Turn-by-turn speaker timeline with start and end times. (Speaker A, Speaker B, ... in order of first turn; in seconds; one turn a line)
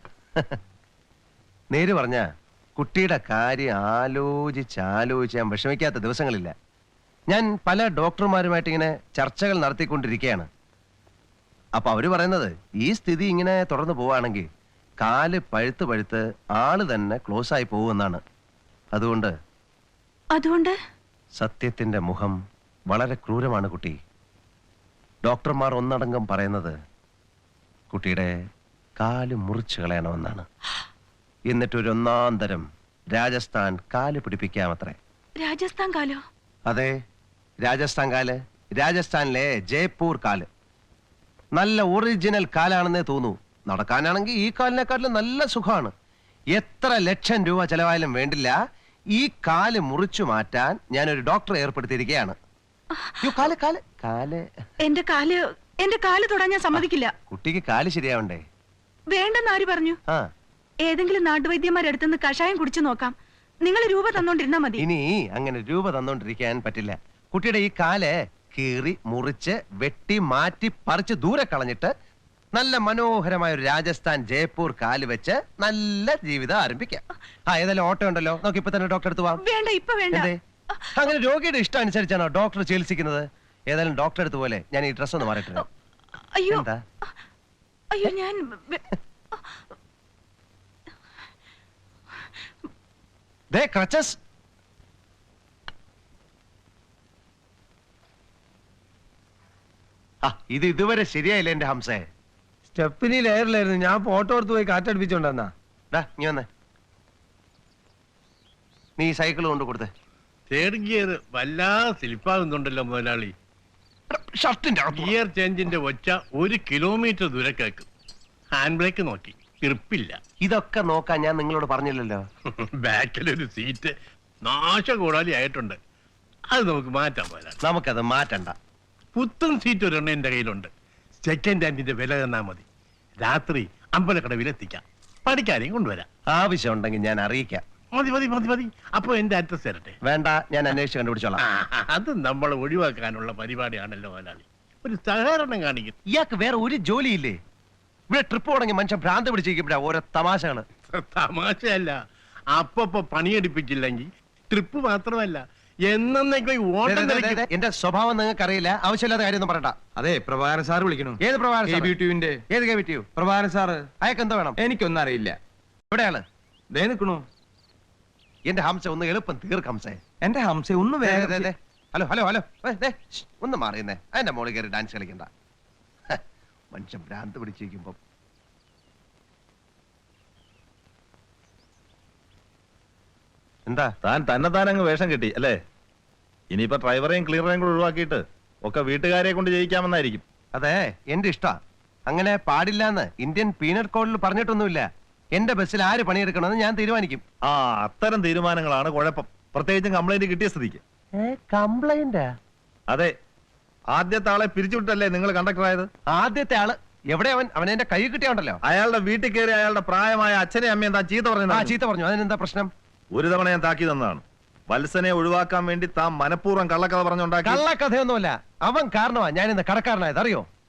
Speaker A: 1.7-2.2
Speaker A: 2.8-6.5
Speaker A: 7.3-10.5
Speaker A: 11.8-14.4
Speaker A: 15.0-18.2
Speaker A: 18.9-19.3
Speaker B: 20.3-20.7
Speaker A: 21.4-22.4
Speaker A: 22.9-24.0
Speaker A: 25.2-26.7
Speaker A: 27.9-28.4
Speaker A: 29.0-30.4
Speaker A: 31.5-35.0
Speaker B: 35.4-36.2
Speaker A: 36.7-36.9
Speaker A: 37.6-40.5
Speaker A: 41.5-45.9
Speaker A: 46.5-48.5
Speaker A: 49.1-52.3
Speaker A: 53.2-54.5
Speaker B: 54.8-57.1
Speaker A: 56.7-58.4
Speaker B: 59.1-60.0
Speaker B: 60.8-63.1
Speaker B: 63.6-64.8
Speaker A: 64.8-71.9
Speaker A: 72.5-79.4
Speaker B: 79.4-80.3
Speaker A: 80.1-80.4
Speaker A: 81.0-85.6
Speaker B: 86.3-86.6
Speaker A: 86.5-86.8
Speaker B: 87.9-89.5
Speaker A: 93.5-94.2
Speaker A: 100.2-102.1
Speaker C: 102.7-105.5
Speaker A: 105.9-106.5
Speaker A: 109.0-109.9
Speaker D: 110.5-113.3
Speaker A: 114.1-115.2
Speaker D: 114.9-117.9
Speaker D: 118.5-120.2
Speaker A: 120.4-122.2
Speaker D: 122.8-125.8
Speaker D: 126.5-127.6
Speaker A: 127.6-128.5
Speaker D: 129.1-130.7
Speaker D: 131.2-132.6
Speaker D: 133.2-136.1
Speaker A: 136.3-137.6
Speaker D: 137.9-139.9
Speaker A: 140.0-141.4
Speaker D: 141.4-145.9
Speaker A: 146.1-147.4
Speaker A: 148.1-150.7
Speaker D: 150.9-151.9
Speaker D: 152.5-157.4
Speaker A: 156.8-159.8
Speaker E: 160.0-161.1
Speaker A: 161.2-161.9
Speaker E: 161.7-162.3
Speaker A: 162.5-163.1
Speaker E: 163.2-163.8
Speaker A: 164.0-164.6
Speaker E: 164.6-165.3
Speaker A: 165.9-166.2
Speaker E: 166.7-167.2
Speaker A: 168.5-170.0
Speaker E: 170.2-171.5
Speaker A: 171.0-175.3
Speaker A: 176.7-178.0
Speaker A: 183.7-183.9
Speaker F: 184.0-185.6
Speaker F: 186.5-190.2
Speaker A: 190.5-191.6
Speaker A: 192.1-197.2
Speaker F: 197.5-200.8
Speaker A: 201.2-202.3
Speaker F: 203.9-205.9
Speaker A: 206.1-208.6
Speaker F: 208.6-211.8
Speaker A: 211.5-212.7
Speaker F: 213.1-217.6
Speaker A: 217.4-220.5